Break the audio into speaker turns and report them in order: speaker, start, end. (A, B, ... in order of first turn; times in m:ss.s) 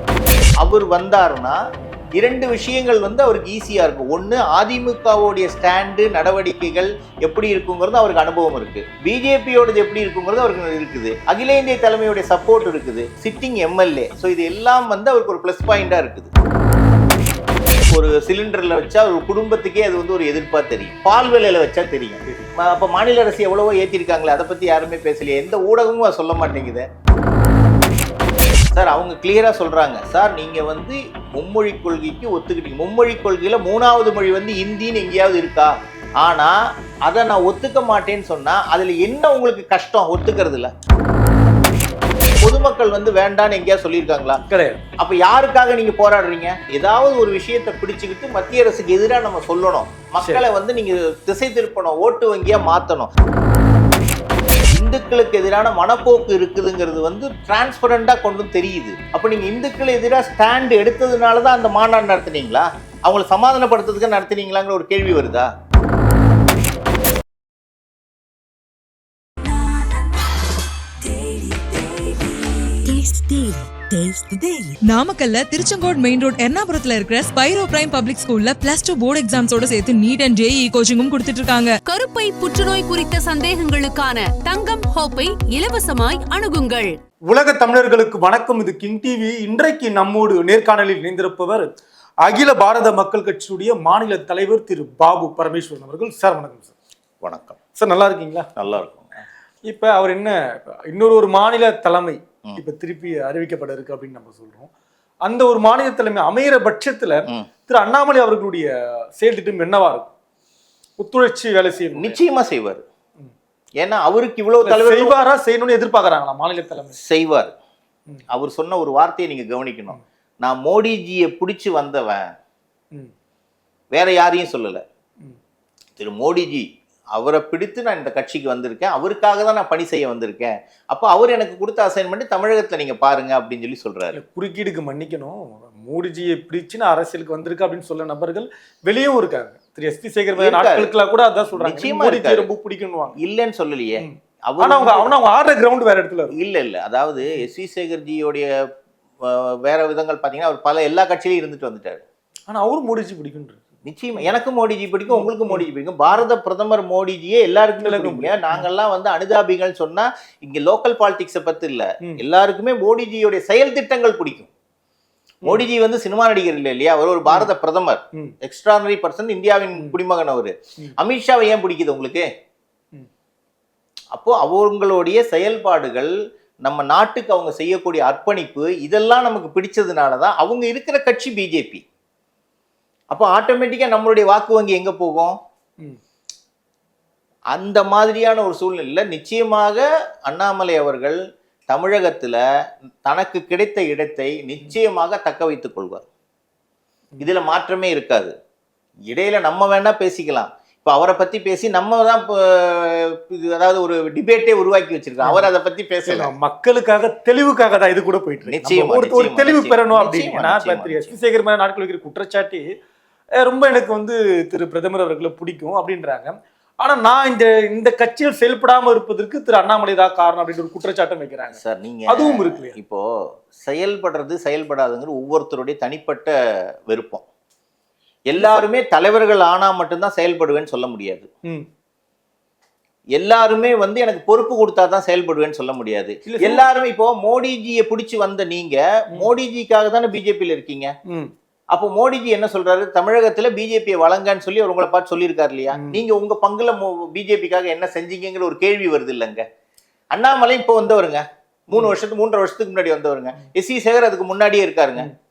0:00.6-0:01.6 A
0:02.2-0:16.3 A
0:17.9-0:26.8 A
0:28.7-0:40.7 A
0:42.4-0:44.4 A
0:44.5-0:44.8 B
0:45.0-0:53.1 A
0:54.7-1:05.5 A
1:12.9-1:21.8 C
1:21.9-1:26.9 D
1:27.3-1:31.7 B
1:32.2-1:36.7 B
1:37.2-1:37.6 A
1:37.8-1:38.5 B
1:38.6-1:39.1 A
1:39.7-1:44.7 B
1:45.2-1:50.1 B
1:51.0-1:52.2 B
1:52.0-1:52.8 A
1:53.8-1:55.1 A
1:54.6-1:57.0 B
1:57.0-1:57.5 A
1:58.3-2:02.3 A
2:03.9-2:04.8 A
2:06.0-2:14.2 A
2:14.1-2:23.2 B
2:20.4-2:20.9 A
2:21.6-2:22.5 A
2:23.2-2:25.1 A
2:24.0-2:26.3 B
2:26.3-2:28.5 A
2:29.2-2:32.0 A
2:32.5-2:33.7 B
2:33.8-2:44.5 A
2:35.1-2:35.7 B
2:37.8-2:38.7 B
2:45.4-2:52.2 A
2:54.2-2:56.1 A
2:56.6-3:01.8 A
3:03.1-3:05.4 A
3:07.5-3:11.2 A
3:11.7-3:12.4 A
3:13.0-3:16.0 A
3:17.2-3:18.3 A
3:19.1-3:26.3 A
3:25.2-3:25.5 B
3:26.1-3:32.7 B
3:28.5-3:31.2 A
3:33.4-3:42.8 B
3:41.5-3:46.3 A
3:46.9-3:47.2 A
3:48.3-3:51.3 A
3:53.2-4:00.9 A
3:56.3-3:56.6 B
4:01.1-4:01.3 B
4:01.7-4:09.4 A
4:05.7-4:06.0 B
4:10.1-4:15.1 A